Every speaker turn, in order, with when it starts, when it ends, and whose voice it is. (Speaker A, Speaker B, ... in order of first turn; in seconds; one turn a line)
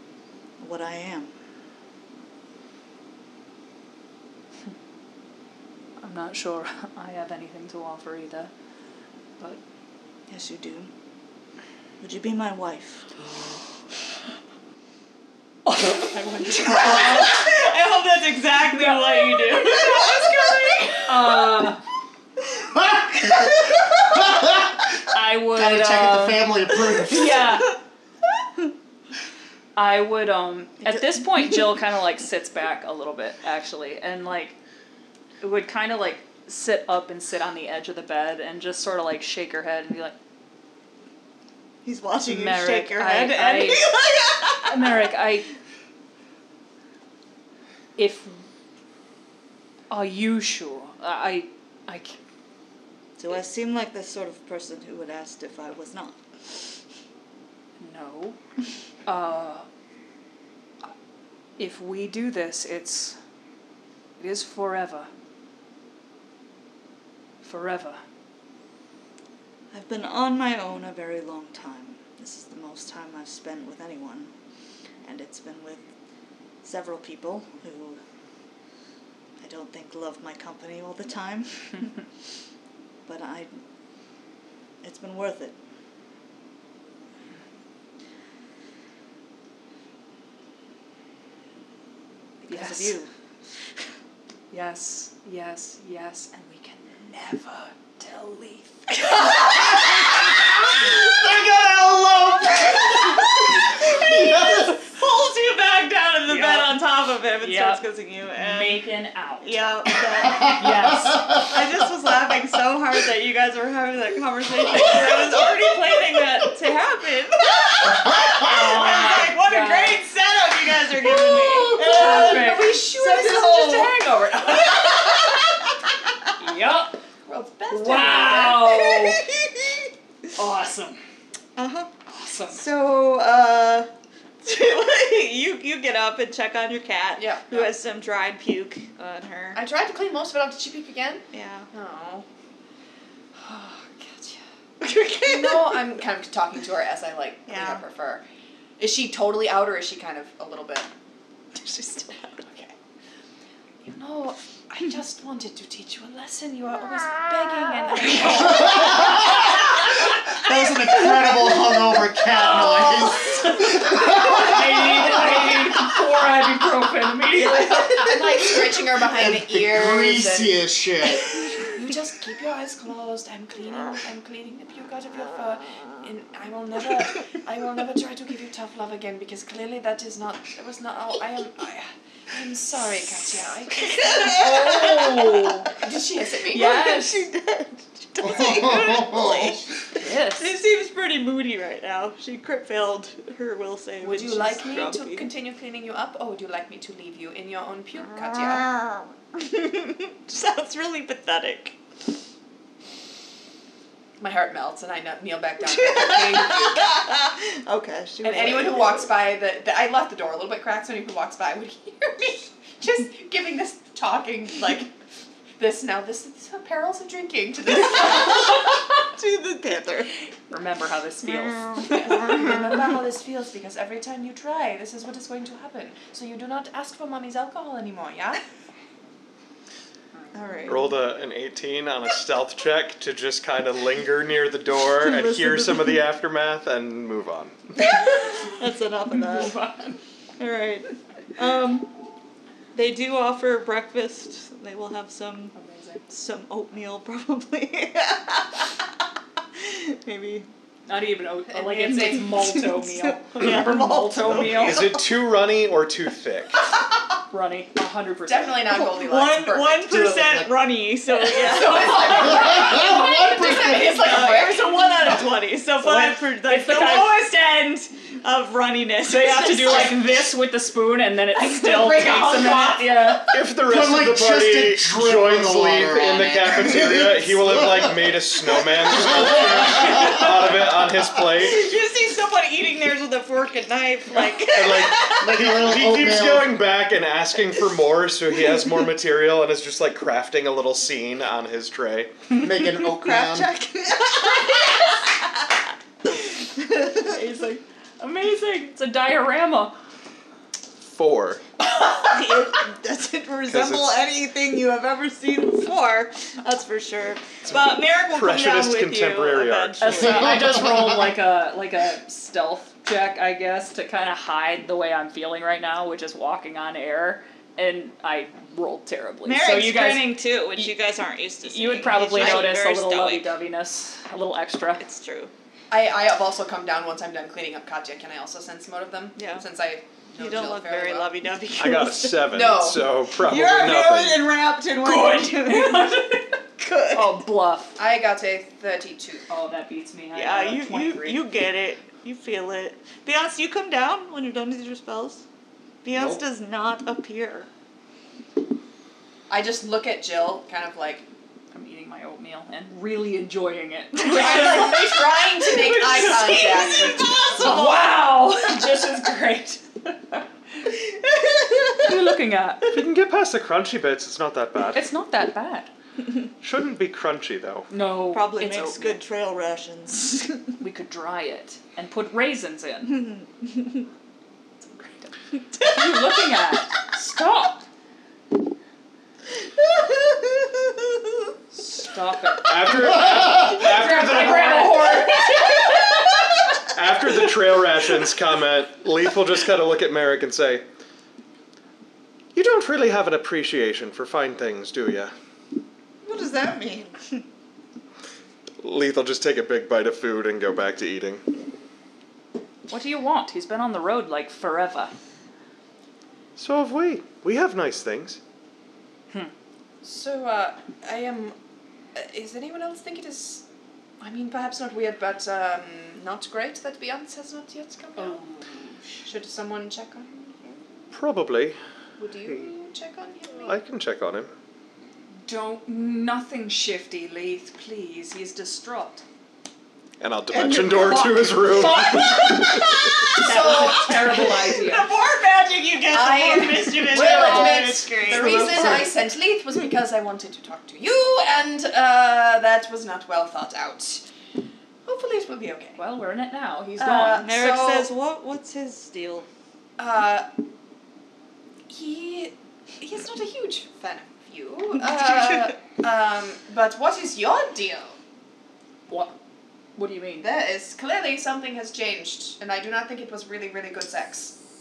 Speaker A: 0.6-1.3
Speaker B: 6.0-8.5
Speaker A: 10.3-10.9
Speaker A: 12.0-13.3
Speaker B: 15.7-17.4
Speaker C: 16.0-17.3
Speaker A: 16.6-20.8
Speaker B: 18.6-19.9
Speaker C: 19.6-21.1
Speaker B: 21.1-21.8
Speaker D: 22.7-27.5
Speaker A: 23.2-24.3
Speaker B: 25.1-27.7
Speaker B: 29.8-34.6
Speaker A: 30.8-31.7
Speaker B: 35.4-40.2
Speaker A: 41.8-45.0
Speaker B: 42.3-43.9
Speaker B: 44.6-45.5
Speaker B: 48.0-48.5
Speaker B: 49.9-52.2
Speaker A: 53.2-56.8
Speaker B: 57.8-58.4
Speaker B: 59.1-59.7
Speaker B: 61.6-63.2
Speaker B: 64.2-65.1
Speaker B: 67.4-68.0
Speaker A: 69.7-74.3
Speaker A: 75.0-75.8
Speaker A: 76.6-78.0
Speaker A: 79.4-82.0
Speaker A: 83.1-83.5
Speaker A: 84.8-85.6
Speaker A: 92.4-93.1
Speaker B: 92.5-93.0
Speaker B: 94.5-99.8
Speaker D: 99.4-104.8
Speaker A: 102.6-108.8
Speaker B: 106.3-106.8
Speaker B: 107.4-107.8
Speaker B: 108.4-109.5
Speaker A: 109.4-110.7
Speaker B: 110.5-111.4
Speaker A: 111.4-125.6
Speaker B: 114.8-115.1
Speaker B: 118.2-120.0
Speaker C: 121.2-125.5
Speaker B: 121.7-122.9
Speaker B: 126.4-127.0
Speaker C: 127.3-128.6
Speaker B: 127.7-129.2
Speaker A: 128.4-129.9
Speaker B: 130.3-131.0
Speaker A: 131.6-131.9
Speaker B: 132.1-132.6
Speaker A: 132.5-133.9
Speaker A: 134.4-139.6
Speaker C: 137.2-137.7
Speaker C: 139.5-142.3
Speaker A: 141.3-141.7
Speaker C: 143.4-144.4
Speaker A: 144.8-145.9
Speaker C: 145.2-148.2
Speaker A: 147.5-147.8
Speaker C: 148.8-150.9
Speaker C: 151.6-152.7
Speaker C: 153.8-159.0
Speaker B: 158.2-159.2
Speaker D: 158.2-159.6
Speaker D: 160.2-165.2
Speaker B: 162.2-167.9
Speaker C: 167.3-170.6
Speaker D: 169.1-171.5
Speaker C: 171.3-185.0
Speaker A: 183.7-185.8
Speaker B: 184.3-185.7
Speaker C: 185.7-186.8
Speaker A: 186.5-189.7
Speaker B: 186.6-187.2
Speaker D: 188.2-189.6
Speaker B: 190.0-190.6
Speaker A: 190.2-195.3
Speaker C: 194.0-198.7
Speaker A: 198.0-201.8
Speaker C: 204.2-206.9
Speaker A: 205.6-209.1
Speaker C: 208.2-214.9
Speaker C: 215.6-218.7
Speaker A: 217.8-220.1
Speaker B: 220.5-222.1
Speaker A: 221.3-222.7
Speaker C: 221.8-228.4
Speaker B: 230.3-230.7
Speaker A: 230.3-231.0
Speaker E: 230.7-237.8
Speaker A: 234.8-236.1
Speaker A: 237.9-239.6
Speaker B: 239.1-240.0
Speaker A: 240.4-241.9
Speaker A: 242.7-245.5
Speaker B: 245.5-246.1
Speaker A: 246.1-249.0
Speaker A: 249.5-250.5
Speaker B: 250.9-254.8
Speaker C: 251.5-252.3
Speaker A: 252.2-255.0
Speaker E: 254.2-256.7
Speaker B: 257.3-258.9
Speaker C: 258.3-260.2
Speaker A: 258.7-262.8
Speaker D: 260.1-260.5
Speaker C: 261.2-265.1
Speaker B: 261.3-262.4
Speaker D: 262.0-264.0
Speaker A: 263.8-270.2
Speaker B: 265.8-267.4
Speaker B: 269.1-273.4
Speaker C: 271.4-273.3
Speaker E: 273.3-281.7
Speaker D: 273.6-279.9
Speaker A: 279.0-280.5
Speaker A: 281.2-285.5
Speaker E: 284.4-292.1
Speaker D: 285.1-286.6
Speaker D: 292.3-293.5
Speaker A: 292.8-297.2
Speaker B: 297.0-299.8
Speaker E: 300.9-301.4
Speaker A: 301.6-310.6
Speaker E: 303.5-304.1
Speaker E: 307.5-310.0
Speaker B: 309.8-320.7
Speaker A: 319.2-323.3
Speaker B: 321.4-324.8
Speaker C: 322.2-322.5
Speaker A: 324.8-325.3
Speaker C: 325.7-331.1
Speaker A: 329.2-329.4
Speaker A: 330.2-332.3
Speaker E: 331.6-334.3
Speaker C: 332.3-332.8
Speaker A: 333.1-337.2
Speaker B: 334.8-336.4
Speaker B: 336.9-337.8
Speaker C: 337.8-339.3
Speaker B: 339.3-341.2
Speaker A: 340.1-345.2
Speaker A: 345.8-347.5
Speaker C: 349.3-351.1
Speaker B: 351.5-359.6
Speaker C: 354.0-357.5
Speaker A: 354.2-354.9
Speaker A: 355.4-358.1
Speaker A: 360.6-362.0
Speaker B: 361.8-362.8
Speaker E: 362.7-364.8
Speaker B: 364.7-365.7
Speaker E: 366.4-367.7
Speaker B: 367.7-369.0
Speaker A: 368.1-370.4
Speaker B: 370.6-373.1
Speaker A: 372.9-373.8
Speaker B: 374.8-377.6
Speaker A: 375.6-376.0
Speaker A: 379.6-381.3
Speaker B: 381.5-386.2
Speaker E: 382.4-385.0
Speaker C: 383.9-385.1
Speaker E: 386.7-390.6
Speaker E: 392.3-395.1
Speaker A: 396.0-397.2
Speaker E: 398.6-401.2
Speaker B: 402.7-404.9
Speaker E: 406.4-408.2
Speaker C: 409.8-411.4
Speaker C: 411.9-413.4
Speaker C: 414.0-418.2
Speaker B: 418.0-418.8
Speaker C: 419.0-420.9
Speaker E: 420.9-421.6
Speaker C: 422.0-423.6
Speaker E: 423.4-424.3
Speaker B: 425.2-429.1
Speaker E: 430.0-433.1
Speaker B: 430.3-434.9
Speaker A: 431.9-438.9
Speaker C: 433.1-434.4
Speaker C: 435.9-444.0
Speaker B: 436.9-438.9
Speaker C: 444.9-445.8
Speaker B: 445.8-447.3
Speaker C: 446.8-447.9
Speaker A: 447.1-449.3
Speaker C: 449.8-450.3
Speaker C: 451.7-458.0
Speaker B: 458.9-459.1
Speaker B: 459.8-460.3
Speaker C: 460.2-464.4